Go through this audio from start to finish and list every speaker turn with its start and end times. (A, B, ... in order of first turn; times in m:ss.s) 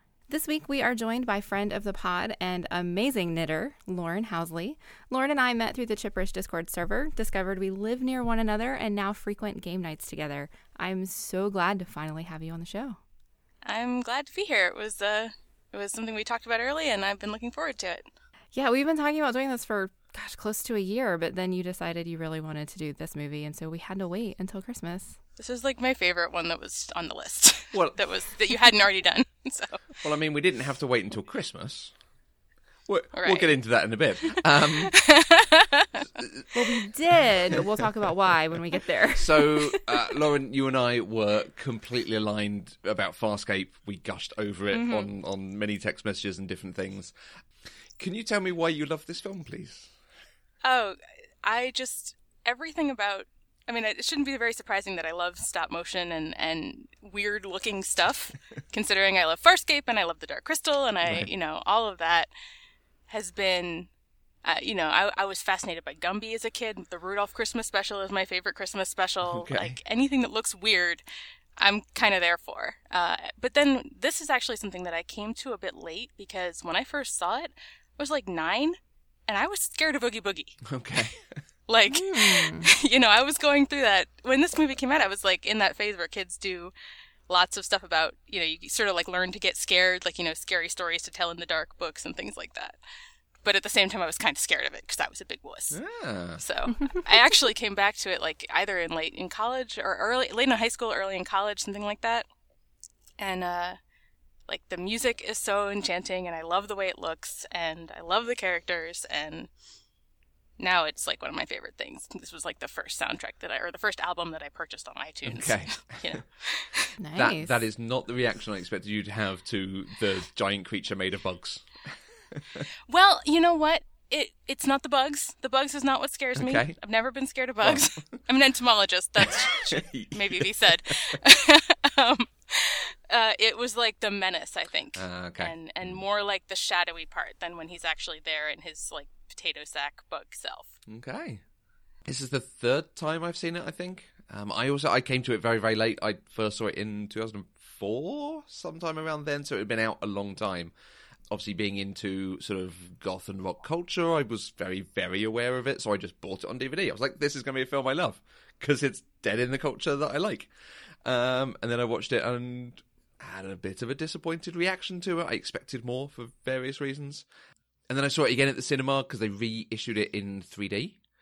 0:00.3-0:13.0 A
0:13.6-0:18.1 B
0:18.5-0:25.2 A
0:25.4-0:30.0 B
0:27.7-0:28.0 C
0:30.0-0:31.9 C
0:32.9-0:35.0 C
0:33.1-0:33.5 B
0:34.3-0:36.0 B
0:36.2-0:36.4 C
0:36.5-0:40.0 A
0:39.2-0:47.1 C
0:44.7-0:45.1 B
0:47.6-0:49.9 C
0:50.6-1:02.3 B
1:01.0-1:01.3 C
1:03.1-1:03.9 B
1:04.4-1:11.0 B
1:09.3-1:09.8 C
1:11.6-1:18.7 B
1:19.3-1:20.6 B
1:20.6-1:21.4 C
1:21.7-1:26.7 B
1:21.9-1:22.7 A
1:27.3-1:32.8 B
1:33.4-1:35.8 B
1:35.7-1:36.4 C
1:36.4-1:42.3 B
1:43.2-1:43.8 B
1:44.5-1:49.5 B
1:50.6-1:56.9 B
1:55.2-1:56.2 C
1:57.0-1:57.6 A
1:57.1-2:02.6 C
2:02.9-2:20.8 B
2:06.4-2:06.8 C
2:07.6-2:07.9 C
2:09.2-2:11.2 C
2:14.9-2:16.0 C
2:20.9-2:21.4 C
2:22.0-2:30.7 C
2:31.3-2:40.5 C
2:41.0-2:47.2 C
2:47.9-2:51.0 C